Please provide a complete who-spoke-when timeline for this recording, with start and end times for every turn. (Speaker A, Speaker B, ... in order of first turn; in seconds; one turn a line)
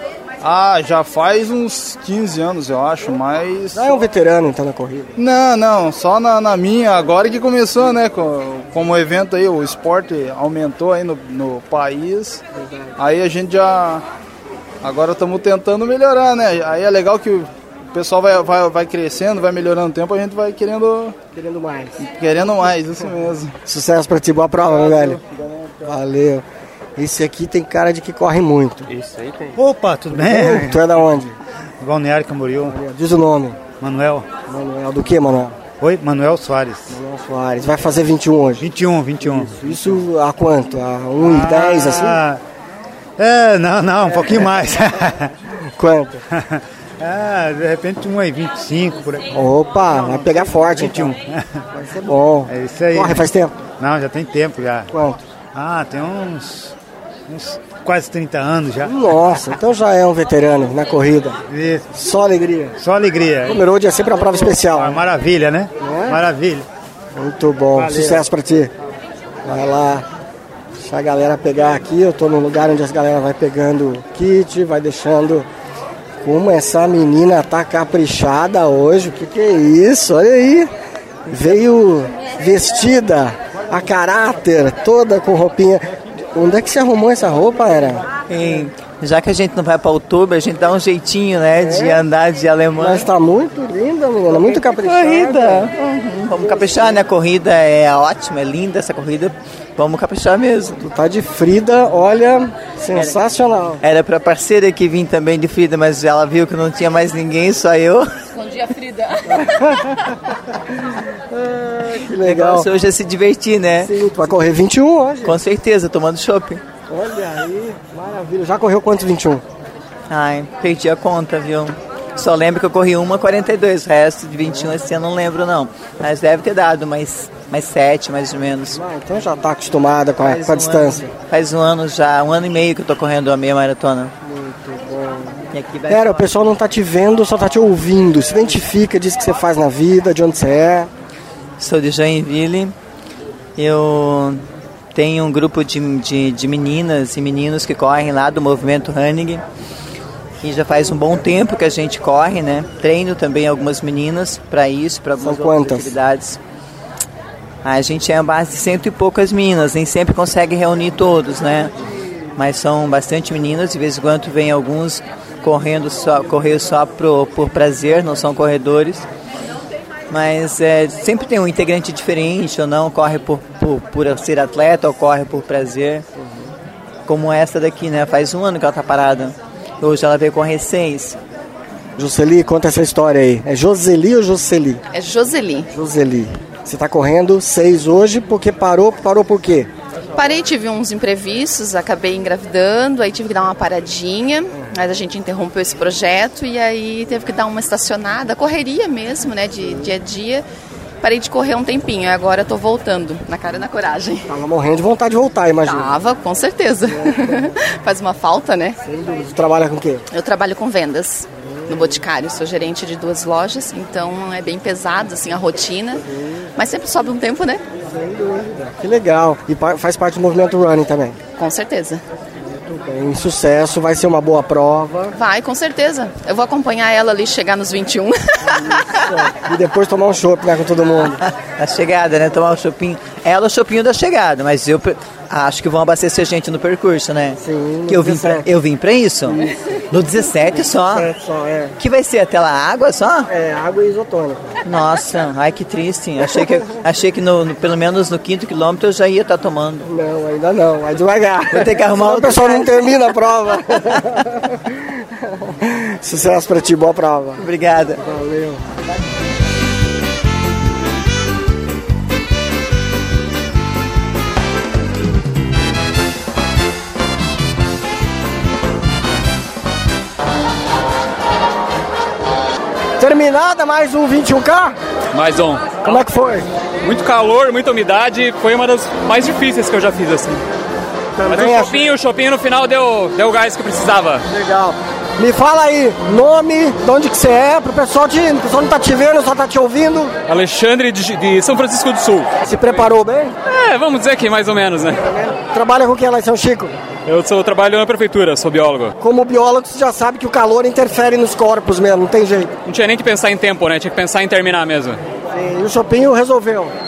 Speaker A: 0.4-3.9
Speaker B: 3.7-5.2
Speaker A: 5.2-12.4
Speaker B: 12.6-12.9
Speaker A: 13.0-14.0
Speaker A: 14.8-21.2
Speaker B: 21.3-22.0
Speaker A: 22.0-23.5
Speaker B: 23.6-25.2
Speaker B: 25.8-26.4
Speaker B: 27.0-28.9
Speaker C: 29.6-30.9
Speaker B: 30.1-31.3
Speaker C: 31.8-32.8
Speaker B: 32.6-33.6
Speaker C: 33.8-34.2
Speaker B: 34.5-35.6
Speaker C: 35.8-37.0
Speaker B: 36.9-38.6
Speaker C: 38.6-39.6
Speaker B: 39.2-42.2
Speaker C: 41.2-42.4
Speaker C: 43.2-45.2
Speaker B: 45.8-46.2
Speaker C: 47.0-49.2
Speaker B: 49.3-51.1
Speaker C: 49.9-51.4
Speaker B: 51.7-53.5
Speaker C: 52.5-53.2
Speaker C: 53.8-54.9
Speaker B: 54.9-55.2
Speaker C: 55.5-56.7
Speaker C: 57.3-58.9
Speaker B: 58.8-61.4
Speaker C: 61.5-61.8
Speaker B: 61.9-62.8
Speaker C: 62.8-63.6
Speaker B: 63.4-65.0
Speaker C: 64.5-66.6
Speaker B: 65.8-66.2
Speaker B: 67.1-68.7
Speaker C: 67.7-68.2
Speaker B: 69.4-70.0
Speaker B: 70.8-75.5
Speaker B: 76.2-80.7
Speaker B: 81.3-88.0
Speaker D: 88.3-93.1
Speaker B: 91.6-92.0
Speaker B: 92.8-95.7
Speaker D: 94.5-100.8
Speaker B: 96.4-96.9
Speaker B: 100.8-103.8
Speaker D: 103.8-108.1
Speaker B: 109.3-110.1
Speaker B: 111.3-112.7
Speaker D: 112.2-113.9
Speaker B: 113.8-115.4
Speaker D: 115.2-116.6
Speaker B: 116.9-119.4
Speaker D: 120.1-128.8
Speaker B: 128.7-131.1
Speaker D: 130.2-134.1
Speaker B: 134.2-140.9
Speaker D: 135.5-136.3
Speaker D: 141.6-142.7
Speaker D: 143.6-144.4
Speaker D: 144.9-149.4
Speaker D: 150.4-156.4
Speaker B: 155.2-155.9
Speaker D: 157.6-161.7
Speaker D: 162.3-169.1
Speaker D: 170.1-176.0
Speaker D: 177.1-181.2
Speaker B: 181.9-184.8
Speaker E: 184.9-185.7
Speaker B: 185.7-189.7
Speaker E: 190.1-200.4
Speaker E: 201.0-204.3
Speaker B: 204.3-205.9
Speaker E: 205.6-208.8
Speaker B: 208.8-210.0
Speaker E: 210.1-216.0
Speaker B: 211.5-211.9
Speaker B: 216.1-216.4
Speaker E: 216.6-217.6
Speaker B: 217.8-221.2
Speaker E: 221.4-222.0
Speaker B: 222.4-225.1
Speaker E: 225.1-228.8
Speaker B: 228.9-231.2
Speaker D: 231.2-241.1
Speaker B: 237.4-238.5
Speaker B: 240.9-241.8
Speaker D: 241.8-243.3
Speaker B: 243.3-244.5
Speaker D: 244.6-249.9
Speaker B: 249.8-257.4
Speaker D: 251.5-252.9
Speaker D: 257.4-258.0
Speaker B: 258.0-258.6
Speaker B: 273.0-274.8
Speaker F: 275.1-275.9
Speaker B: 275.8-276.5
Speaker F: 276.8-280.4
Speaker B: 281.1-281.9
Speaker F: 281.3-284.2
Speaker B: 284.3-290.1
Speaker F: 290.3-292.3
Speaker B: 292.4-293.4
Speaker F: 293.6-295.0
Speaker B: 295.0-296.7
Speaker F: 297.1-298.9
Speaker B: 299.0-302.5
Speaker B: 305.3-306.7